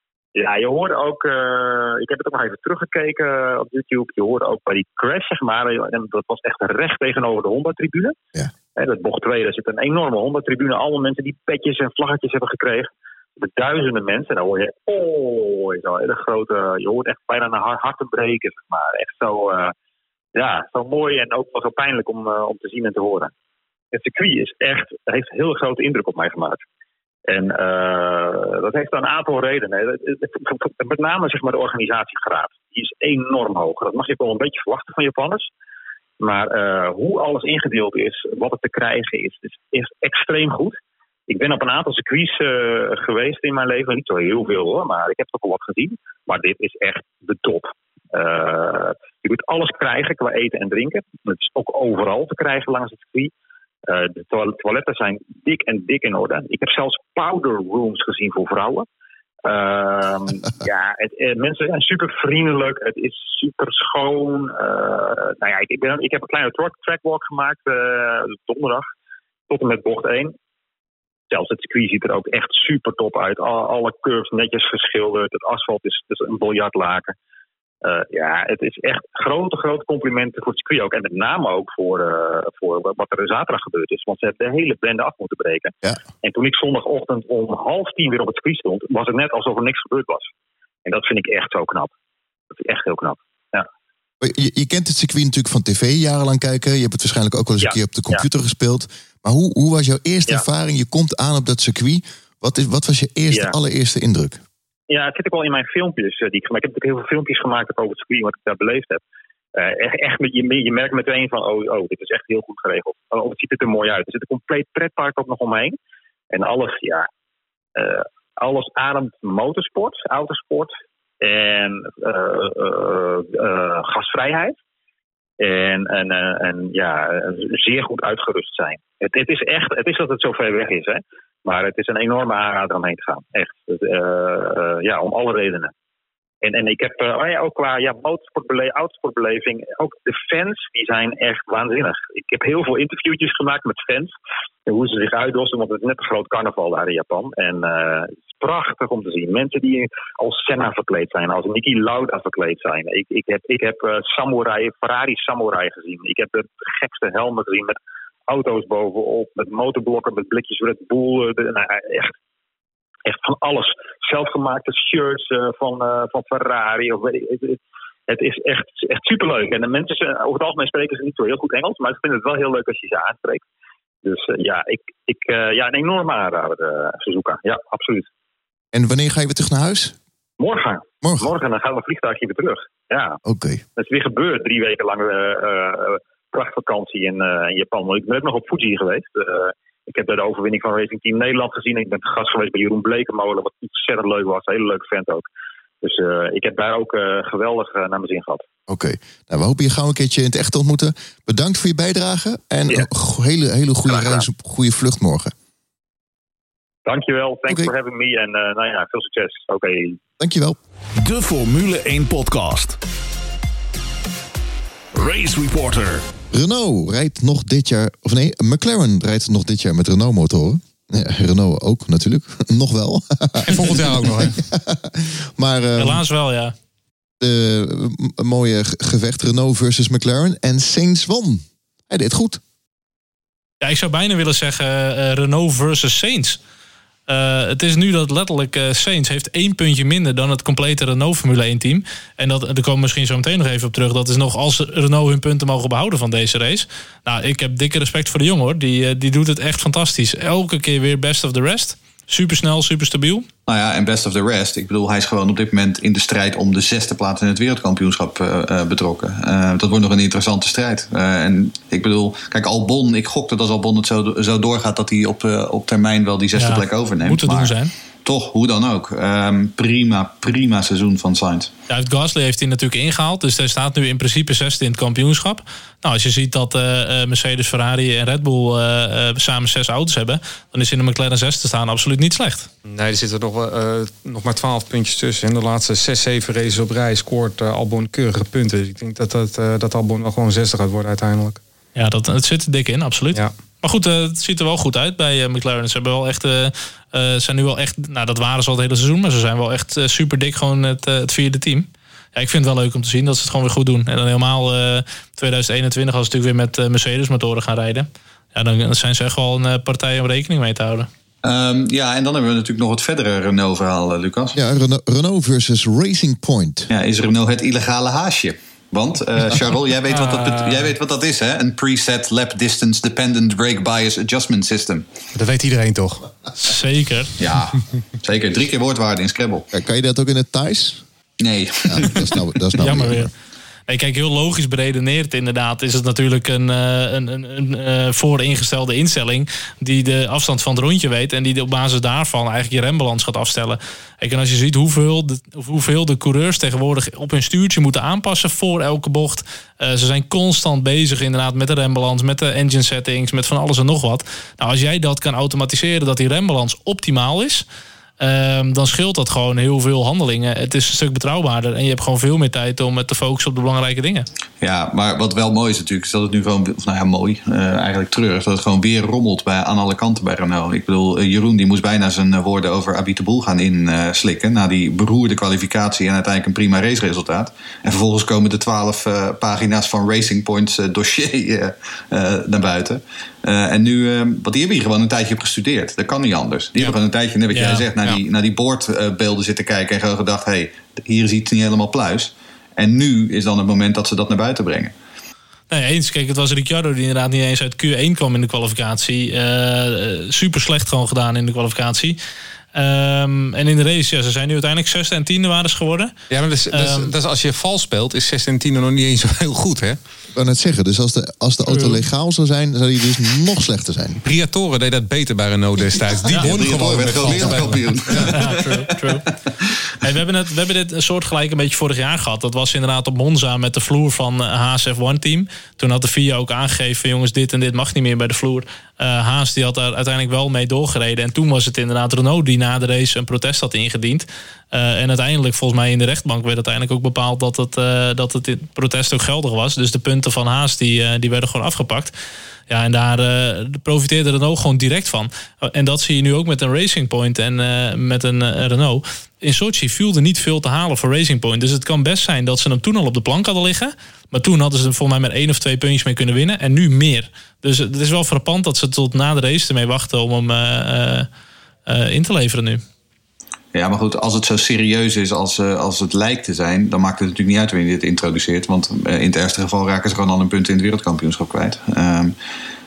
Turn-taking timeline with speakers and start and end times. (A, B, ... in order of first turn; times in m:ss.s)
0:00.3-0:08.2 A
0:08.8-0:19.7 A
0:20.3-0:23.3 A
0:23.9-0:26.6 A
0:27.3-0:35.5 A
0:36.2-0:40.8 A
0:41.3-0:53.3 A
0:53.9-0:58.8 A
0:59.4-1:08.9 A
1:09.5-1:10.3 A
1:11.3-1:17.1 A
1:17.8-1:30.3 A
1:30.8-1:31.9 A
1:32.5-1:33.7 A
1:34.2-1:44.4 B
1:37.6-1:38.2 A
1:44.9-1:49.0 A
1:49.5-1:55.8 A
1:56.3-1:57.1 A
1:57.7-2:04.6 A
2:05.4-2:15.7 A
2:16.4-2:24.1 A
2:24.6-2:37.8 A
2:38.3-2:42.1 A
2:43.0-2:53.4 A
2:54.0-2:58.1 A
2:58.7-3:00.0 B
3:00.4-3:03.2 A
3:01.0-3:01.3 B
3:03.2-3:03.6 B
3:03.8-3:15.2 A
3:15.8-3:18.4 A
3:18.7-3:25.3 B
3:23.9-3:24.2 A
3:26.8-3:30.0 A
3:30.2-3:30.6 B
3:31.0-3:32.8 C
3:34.9-3:36.0 C
3:36.3-3:46.0 B
3:43.4-3:44.4 D
3:45.8-3:46.5 E
3:47.2-3:52.4 B
3:53.6-3:56.4 E
3:57.1-4:13.3 E
4:13.5-4:27.5 F
4:26.3-4:27.7 E
4:28.0-4:31.5 F
4:31.7-4:42.5 E
4:42.6-4:51.4 D
4:51.7-5:10.9 E
5:11.2-5:14.4 F
5:14.3-5:16.7 B
5:16.7-5:24.9 F
5:20.0-5:20.6 E
5:25.1-5:26.1 D
5:26.4-5:27.1 E
5:27.2-5:29.5 F
5:29.5-5:30.8 B
5:31.2-5:32.0 F
5:31.6-5:33.1 B
5:32.6-5:33.1 E
5:33.7-5:57.4 E
5:58.0-6:04.1 E
6:04.4-6:34.7 F
6:27.3-6:27.6 E
6:35.5-6:42.0 E
6:42.5-6:45.9 E
6:46.1-6:49.8 D
6:46.5-6:46.9 E
6:50.1-6:54.0 B
6:51.5-6:51.8 E
6:54.0-6:58.1 D
6:56.1-6:58.8 F
6:58.0-6:59.0 E
6:59.8-7:21.9 E
7:22.5-7:41.1 E
7:41.7-7:42.6 E
7:43.5-7:52.1 F